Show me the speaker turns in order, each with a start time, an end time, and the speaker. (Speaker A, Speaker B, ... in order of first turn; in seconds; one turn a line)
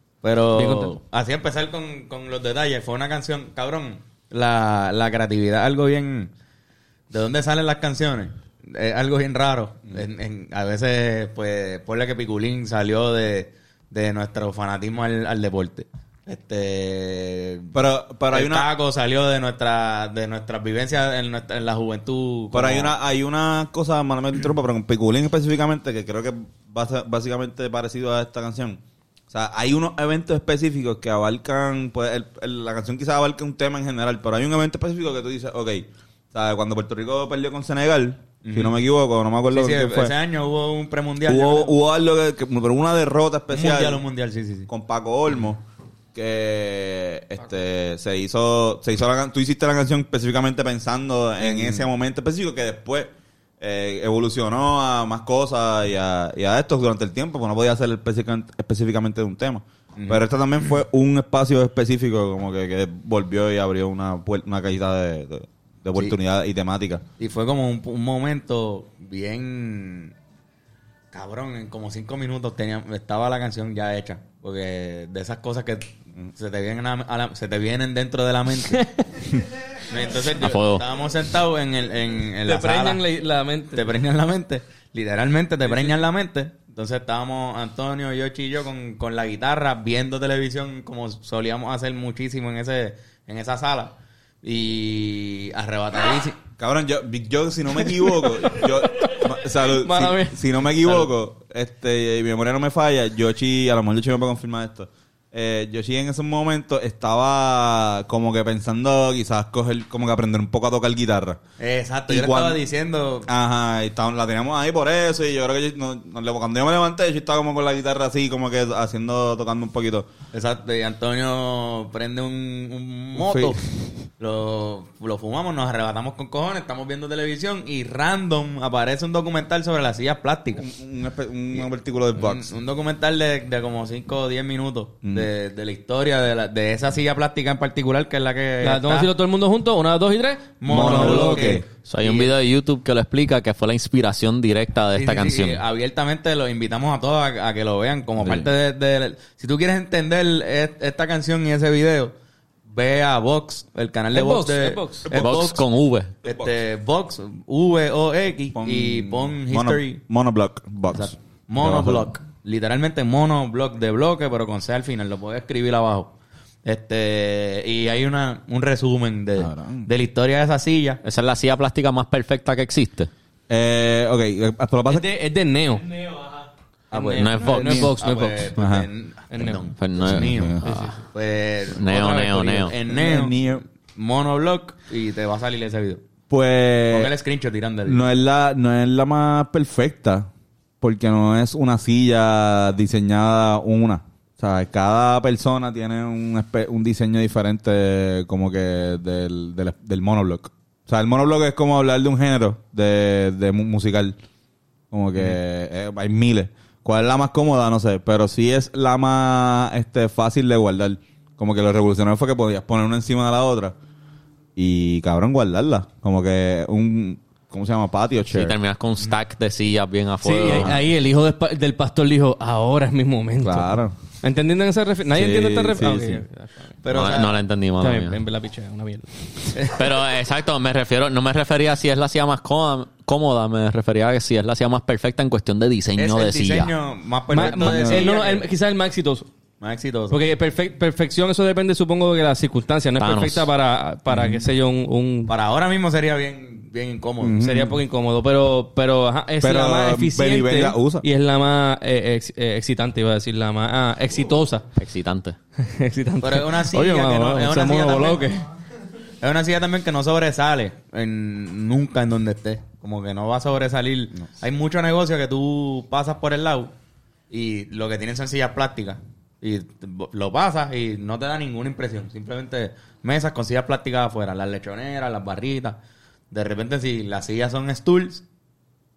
Speaker A: 0.2-6.3
Speaker B: 0.5-0.9
Speaker A: 7.1-17.7
Speaker C: 17.7-18.7
Speaker A: 18.3-22.9
Speaker C: 22.5-40.1
Speaker A: 38.4-38.8
Speaker A: 39.5-41.8
Speaker C: 41.3-44.0
Speaker A: 43.5-44.7
Speaker C: 44.7-67.0
Speaker A: 51.4-51.9
Speaker A: 60.0-60.2
Speaker A: 67.2-70.2
Speaker A: 71.1-78.8
Speaker B: 78.7-79.0
Speaker A: 79.8-83.0
Speaker D: 80.2-80.8
Speaker B: 82.5-83.9
Speaker A: 83.7-96.4
Speaker C: 96.6-111.4
Speaker B: 98.1-101.1
Speaker A: 111.6-113.3
Speaker C: 112.1-112.6
Speaker C: 113.3-120.1
Speaker A: 120.3-123.6
Speaker C: 123.2-123.6
Speaker A: 124.2-130.7
Speaker C: 130.6-132.5
Speaker A: 131.5-139.1
Speaker B: 138.6-141.6
Speaker A: 140.6-142.3
Speaker C: 140.7-141.7
Speaker D: 141.9-145.6
Speaker A: 144.9-152.2
Speaker A: 152.7-155.6
Speaker B: 154.1-155.1
Speaker D: 155.1-156.1
Speaker A: 156.2-160.0
Speaker C: 156.2-156.5
Speaker C: 158.5-162.1
Speaker A: 161.0-166.1
Speaker A: 166.7-171.0
Speaker C: 169.4-169.9
Speaker D: 171.0-173.1
Speaker C: 173.5-175.1
Speaker B: 174.9-176.2
Speaker A: 176.9-186.0
Speaker B: 176.9-178.5
Speaker D: 177.1-177.9
Speaker C: 178.6-178.9
Speaker B: 179.3-179.7
Speaker D: 179.8-180.9
Speaker C: 180.1-180.6
Speaker B: 180.6-181.0
Speaker D: 181.7-182.8
Speaker C: 182.9-183.6
Speaker C: 186.3-187.1
Speaker A: 186.9-188.1
Speaker C: 187.9-190.3
Speaker C: 190.8-204.2
Speaker C: 204.9-213.8
Speaker C: 214.6-218.6
Speaker D: 218.3-220.9
Speaker B: 220.2-226.8
Speaker C: 220.5-220.8
Speaker C: 223.4-223.9
Speaker C: 225.1-226.2
Speaker A: 226.8-227.4
Speaker D: 226.9-228.2
Speaker B: 227.8-229.6
Speaker D: 229.6-236.7
Speaker A: 236.0-238.5
Speaker B: 237.3-239.3
Speaker C: 237.6-238.1
Speaker A: 239.6-240.2
Speaker B: 240.1-245.3
Speaker D: 243.0-243.5
Speaker C: 244.1-244.5
Speaker A: 245.3-247.4
Speaker C: 247.2-247.8
Speaker B: 247.4-254.7
Speaker C: 249.4-251.1
Speaker D: 254.8-255.4
Speaker B: 255.6-258.5
Speaker A: 256.2-258.3
Speaker A: 259.2-266.7
Speaker A: 267.3-275.8
Speaker A: 276.3-278.2